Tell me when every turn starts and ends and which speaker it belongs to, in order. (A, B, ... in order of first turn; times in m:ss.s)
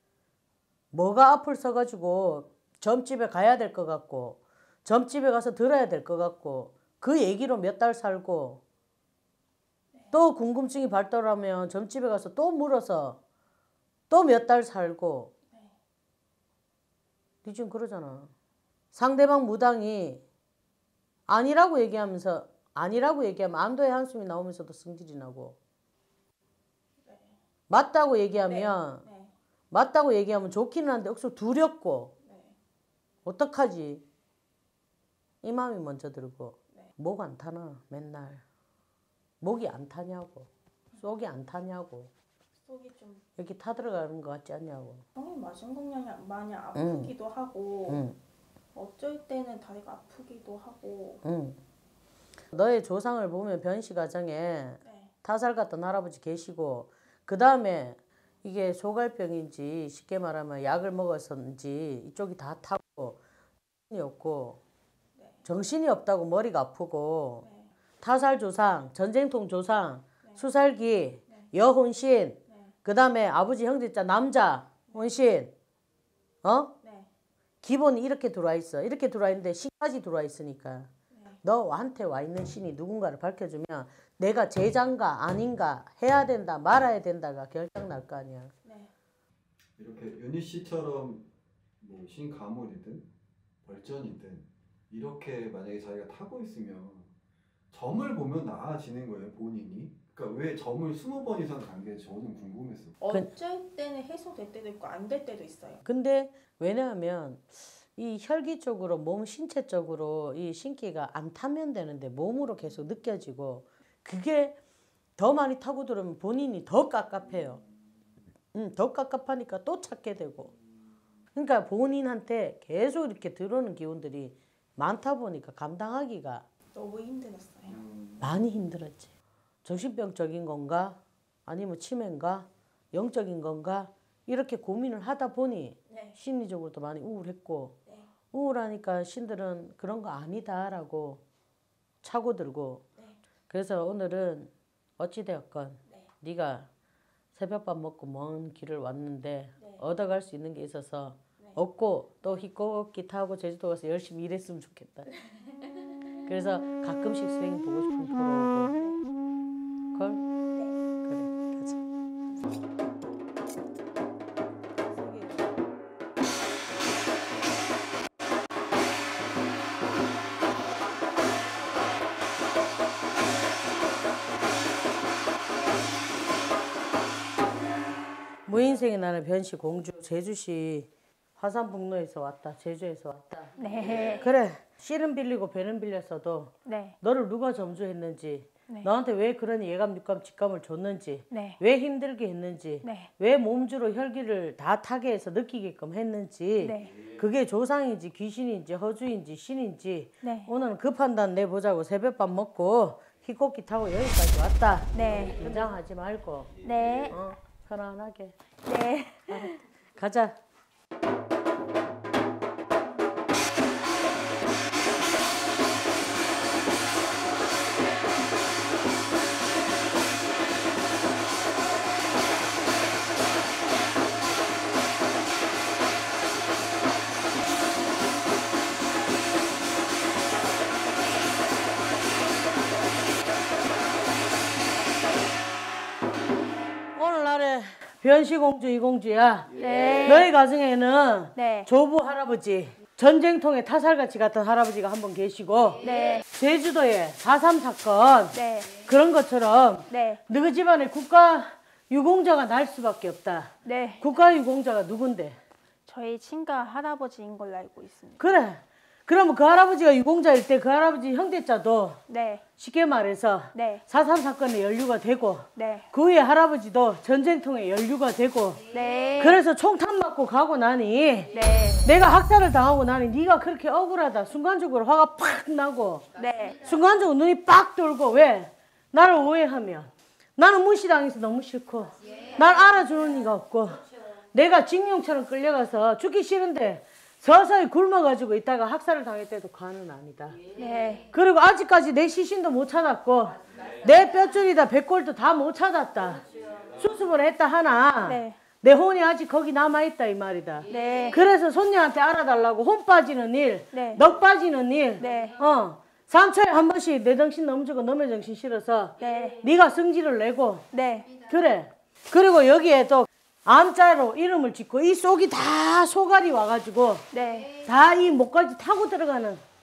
0:00.9-0:08.6 A
0:10.1-0:13.2 A
0:14.1-0:15.3 A
0:17.4-0:18.3 A
0:18.9-0:20.2 A
0:21.3-0:25.6 A
0:27.0-0:27.4 B
0:27.7-0:29.0 A
0:28.4-0:29.3 B
0:29.7-0:32.1 A
0:32.2-0:32.6 B
0:33.2-0:34.0 A
0:35.4-0:38.4 A
0:39.4-0:42.1 A
0:42.6-0:43.2 B
0:43.4-0:45.0 A
0:45.1-0:48.0 B
0:46.7-0:47.1 A
0:47.9-0:48.2 A
0:48.7-0:51.2 B
0:51.2-0:51.6 A
0:52.5-1:03.2 A
0:54.8-0:55.1 B
1:03.9-1:04.6 A
1:05.2-1:05.4 B
1:05.4-1:07.4 A
1:07.4-1:07.7 B
1:08.0-1:15.5 A
1:16.4-1:16.7 A
1:16.8-1:17.1 B
1:17.6-1:20.9 A
1:21.1-1:21.4 B
1:21.4-1:28.5 A
1:28.6-1:28.9 B
1:29.8-1:31.3 C
1:31.8-1:33.0 C
1:33.6-1:37.1 C
1:37.7-1:43.0 C
1:43.0-1:45.8 B
1:45.8-1:54.6 A
1:55.2-1:57.6 A
1:58.5-2:00.5 A
2:01.3-2:06.4 A
2:06.7-2:07.8 B
2:07.7-2:08.3 C
2:08.2-2:09.1 A
2:09.6-2:17.8 A
2:15.9-2:16.2 B
2:18.3-2:21.2 A
2:22.0-2:22.8 A
2:23.5-2:26.7 A
2:27.3-2:35.1 A
2:36.2-2:38.7 A
2:38.8-2:39.0 B
2:39.9-2:40.2 A
2:41.0-2:41.8 A
2:45.0-2:45.3 B
2:58.5-3:28.4 A
3:03.6-3:04.3 B
3:06.6-3:07.0 B
3:11.3-3:11.6 B
3:12.8-3:13.1 B
3:16.6-3:17.0 B
3:20.2-3:20.5 B
3:24.9-3:25.7 B
3:26.6-3:27.2 B
3:28.6-3:29.6 B
3:29.3-3:30.4 A
3:57.0-4:15.4 A
3:59.5-4:00.3 B
4:01.4-4:01.7 B
4:05.8-4:06.2 B
4:08.3-4:08.8 B
4:09.9-4:10.2 B
4:13.6-4:14.1 B
4:15.9-4:18.4 B
4:18.2-4:22.0 A
4:22.1-4:22.4 B
4:22.6-4:28.6 A
4:23.5-4:23.8 B
4:25.6-4:25.9 B
4:28.7-4:29.4 B
4:29.2-4:36.0 A
4:31.3-4:31.8 B
4:36.1-4:36.6 B
4:36.6-4:50.5 A
4:50.5-4:51.1 B
4:51.1-4:56.2 A
4:56.8-5:10.6 A
4:58.0-4:58.4 B
5:00.7-5:01.2 B
5:03.7-5:04.0 B
5:05.0-5:05.4 B
5:09.0-5:09.4 B
5:10.7-5:11.2 B
5:11.3-5:19.4 A
5:17.1-5:17.6 B